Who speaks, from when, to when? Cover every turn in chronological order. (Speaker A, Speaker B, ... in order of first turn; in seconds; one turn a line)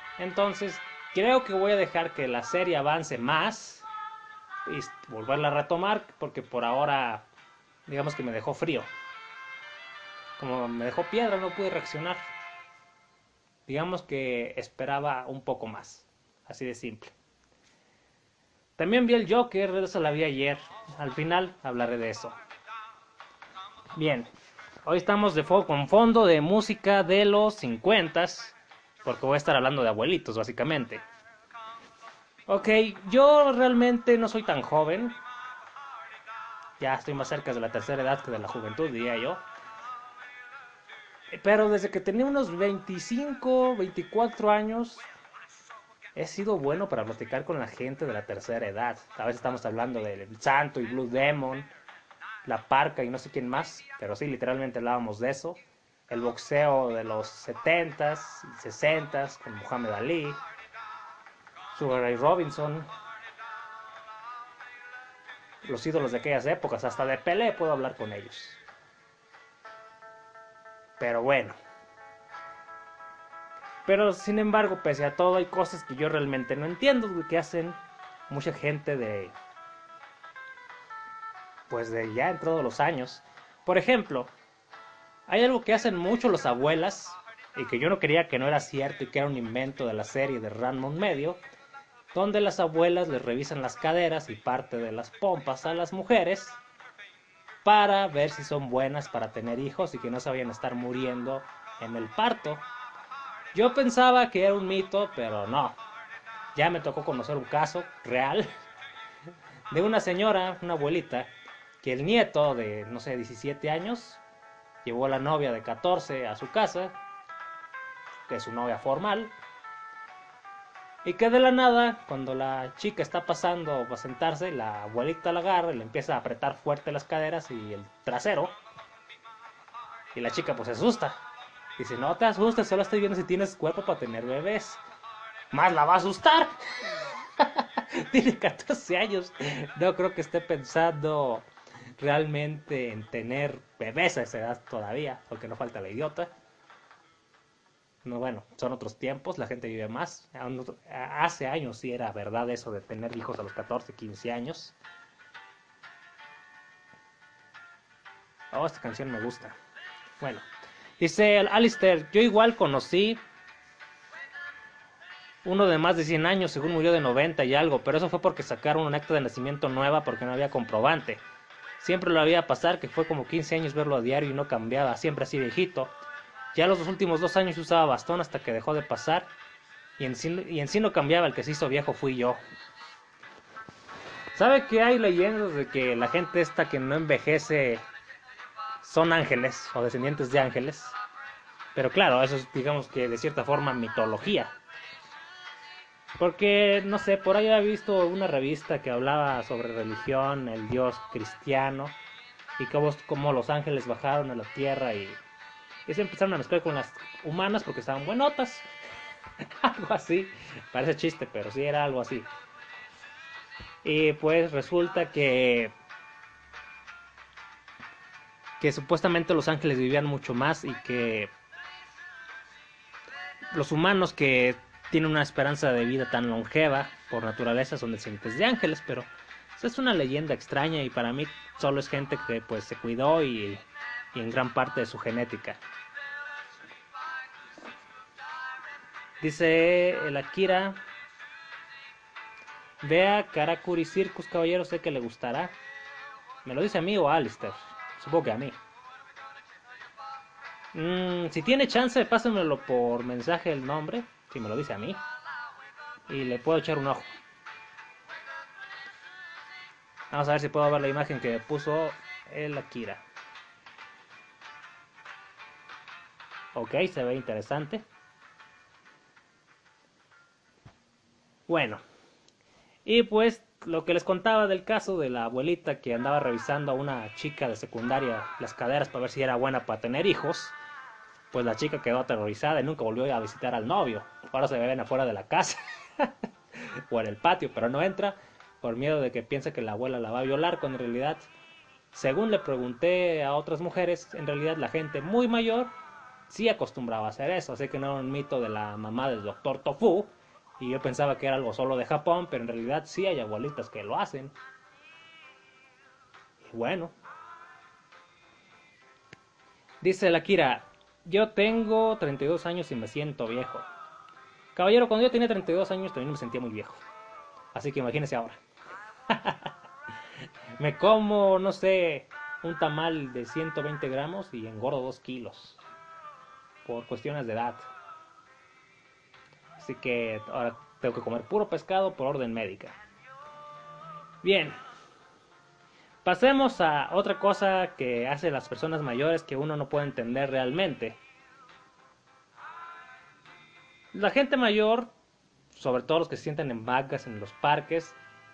Speaker A: 0.2-3.9
Speaker A: 4.7-7.3
Speaker A: 7.9-8.9
Speaker A: 10.4-12.2
Speaker A: 13.7-17.1
Speaker A: 18.8-22.4
Speaker A: 23.9-24.3
Speaker A: 24.8-31.0
Speaker A: 32.5-35.2
Speaker A: 36.8-39.4
Speaker A: 41.3-45.1
Speaker A: 46.1-51.7
Speaker A: 52.5-60.4
Speaker A: 61.7-62.9
Speaker A: 65.6-68.6
Speaker A: 71.0-71.6
Speaker A: 73.8-79.3
Speaker A: 81.7-84.3
Speaker A: 85.3-91.4
Speaker A: 92.1-96.6
Speaker A: 97.7-102.7
Speaker A: 103.5-105.8
Speaker A: 106.5-108.5
Speaker A: 109.7-111.3
Speaker A: 111.8-114.2
Speaker A: 114.8-117.0
Speaker A: 118.3-119.3
Speaker A: 121.0-128.6
Speaker A: 130.1-131.2
Speaker A: 131.8-134.8
Speaker A: 135.5-146.3
Speaker A: 148.0-154.8
Speaker A: 158.5-159.6
Speaker A: 160.2-160.4
Speaker A: 161.0-163.2
Speaker A: 165.4-171.2
Speaker A: 171.8-175.9
Speaker A: 176.5-179.3
Speaker A: 180.0-182.4
Speaker A: 184.3-187.8
Speaker A: 188.8-191.0
Speaker A: 191.8-194.5
Speaker A: 196.2-202.0
Speaker A: 202.6-205.2
Speaker A: 205.9-208.7
Speaker A: 209.6-212.3
Speaker A: 213.8-215.8
Speaker A: 218.6-221.3
Speaker A: 223.5-233.6
Speaker A: 234.1-235.6
Speaker A: 239.2-240.8
Speaker A: 242.8-245.6
Speaker A: 246.4-248.6
Speaker A: 250.7-255.0
Speaker A: 256.1-257.1
Speaker A: 260.1-263.0
Speaker A: 266.5-267.9
Speaker A: 271.5-271.8
Speaker A: 272.9-280.6
Speaker A: 281.3-291.3
Speaker A: 291.9-295.8
Speaker A: 296.3-304.3
Speaker A: 306.4-306.9
Speaker A: 309.8-313.7
Speaker A: 314.6-316.8
Speaker A: 317.5-318.4
Speaker A: 319.1-319.5
Speaker A: 320.6-325.6
Speaker A: 326.6-327.7
Speaker A: 329.6-332.8
Speaker A: 334.2-334.6
Speaker A: 336.0-341.0
Speaker A: 343.9-344.9
Speaker A: 345.5-348.0